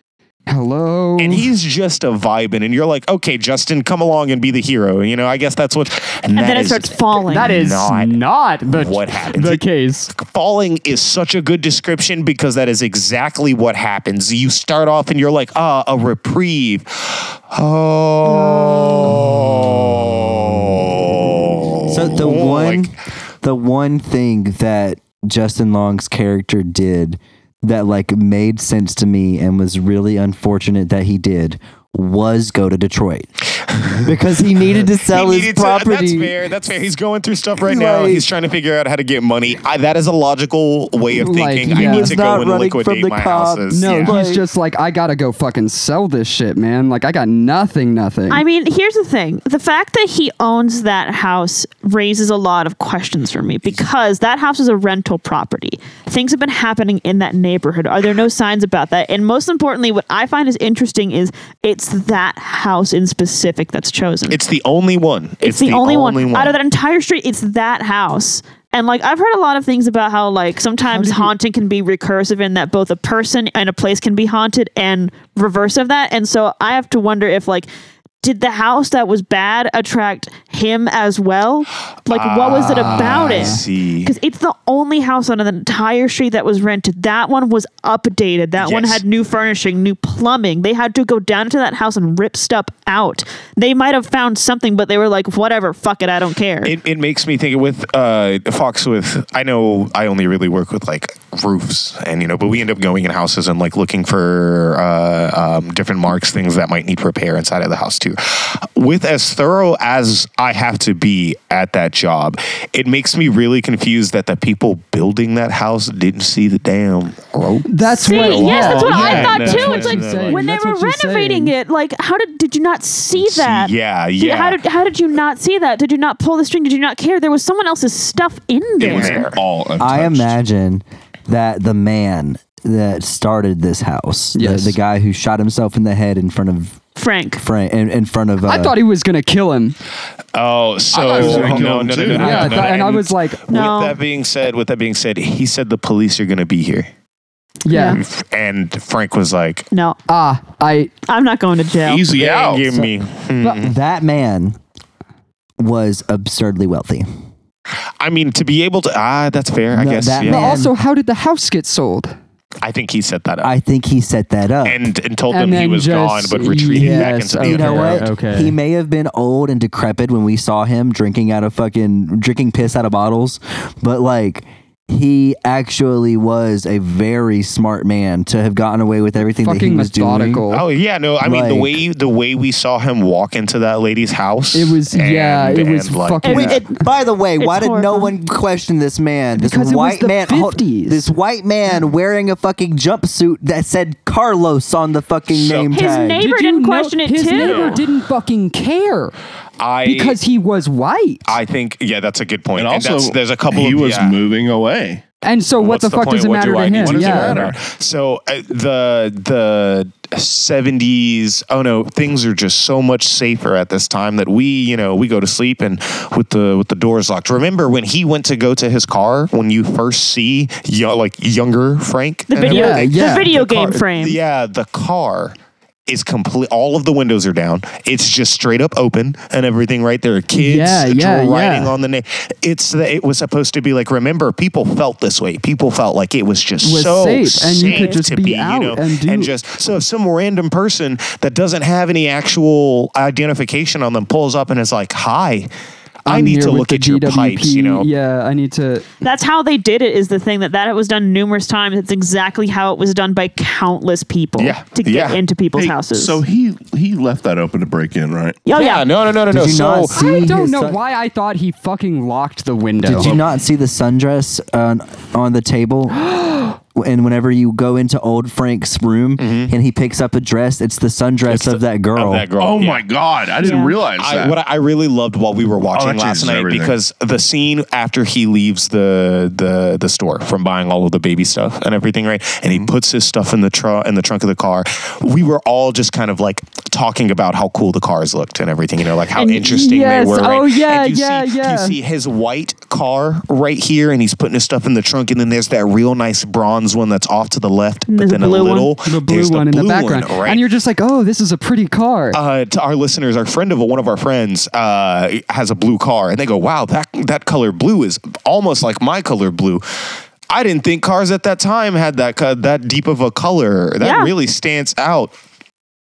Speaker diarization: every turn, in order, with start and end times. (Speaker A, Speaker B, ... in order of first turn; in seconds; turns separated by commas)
Speaker A: 0.5-1.5, Speaker B: 1.2-8.2, Speaker C: 6.3-7.5, Speaker A: 7.3-10.1, Speaker B: 8.7-22.9, Speaker D: 21.9-33.3, Speaker D: 34.0-36.4, Speaker B: 35.0-44.2, Speaker D: 37.6-38.3, Speaker A: 41.1-42.1, Speaker D: 41.7-44.4, Speaker A: 43.7-48.4, Speaker C: 48.3-64.4, Speaker B: 64.3-66.6, Speaker C: 65.4-77.7, Speaker A: 70.9-71.3, Speaker C: 78.2-96.7, Speaker B: 82.1-84.1, Speaker A: 82.5-83.6, Speaker B: 88.6-89.0, Speaker B: 96.6-120.5, Speaker A: 117.7-121.5, Speaker C: 118.0-129.3, Speaker B: 123.2-124.6, Speaker B: 128.8-129.4, Speaker E: 128.8-130.4, Speaker D: 129.8-136.8, Speaker A: 134.3-134.8, Speaker C: 136.9-137.4, Speaker D: 137.4-138.8, Speaker A: 138.4-139.8, Speaker B: 140.3-146.9, Speaker E: 140.9-142.7, Speaker D: 141.2-141.7, Speaker A: 142.1-143.4, Speaker C: 143.5-144.0, Speaker A: 147.6-148.0, Speaker C: 147.7-148.0, Speaker B: 147.8-149.7, Speaker C: 149.7-150.0, Speaker A: 150.1-150.9, Speaker C: 151.1-152.1, Speaker E: 151.8-152.7, Speaker B: 152.1-153.8, Speaker D: 153.6-154.6, Speaker D: 155.6-157.1, Speaker B: 158.0-160.7, Speaker D: 159.7-160.7, Speaker A: 160.2-162.1, Speaker B: 162.6-163.5, Speaker D: 163.4-164.8, Speaker B: 164.6-168.1, Speaker A: 165.3-168.5, Speaker D: 166.7-180.4, Speaker A: 179.4-180.6, Speaker B: 180.5-186.6, Speaker D: 181.2-181.8, Speaker A: 184.5-186.6, Speaker C: 186.2-186.8, Speaker D: 186.3-196.2, Speaker C: 187.4-188.1, Speaker A: 189.4-191.1, Speaker E: 195.4-195.7, Speaker C: 195.7-197.8, Speaker A: 196.2-199.1, Speaker E: 197.4-197.7, Speaker B: 199.6-200.2, Speaker A: 199.8-201.2, Speaker B: 201.3-204.2, Speaker E: 202.5-205.0, Speaker A: 205.2-207.4, Speaker B: 205.6-225.4, Speaker E: 206.8-207.6, Speaker C: 222.3-224.2, Speaker A: 222.4-223.3, Speaker B: 225.9-245.5, Speaker A: 230.3-231.7, Speaker A: 236.6-239.3, Speaker C: 237.6-238.0, Speaker B: 246.1-247.9, Speaker A: 246.1-248.9, Speaker C: 249.0-256.2, Speaker B: 254.4-255.2, Speaker E: 255.6-258.4, Speaker C: 258.4-258.9, Speaker B: 258.5-260.0, Speaker D: 259.3-260.8, Speaker A: 259.9-263.1, Speaker D: 262.8-266.1, Speaker E: 262.9-263.3, Speaker A: 266.1-266.5, Speaker D: 266.7-272.3, Speaker B: 269.2-269.5, Speaker B: 271.3-272.9, Speaker E: 272.4-274.4, Speaker C: 273.4-273.8, Speaker B: 273.9-300.4, Speaker E: 275.7-276.8, Speaker A: 289.2-291.8, Speaker C: 297.9-298.7, Speaker A: 298.8-302.2, Speaker B: 302.1-309.6, Speaker B: 310.3-315.1, Speaker C: 313.8-314.1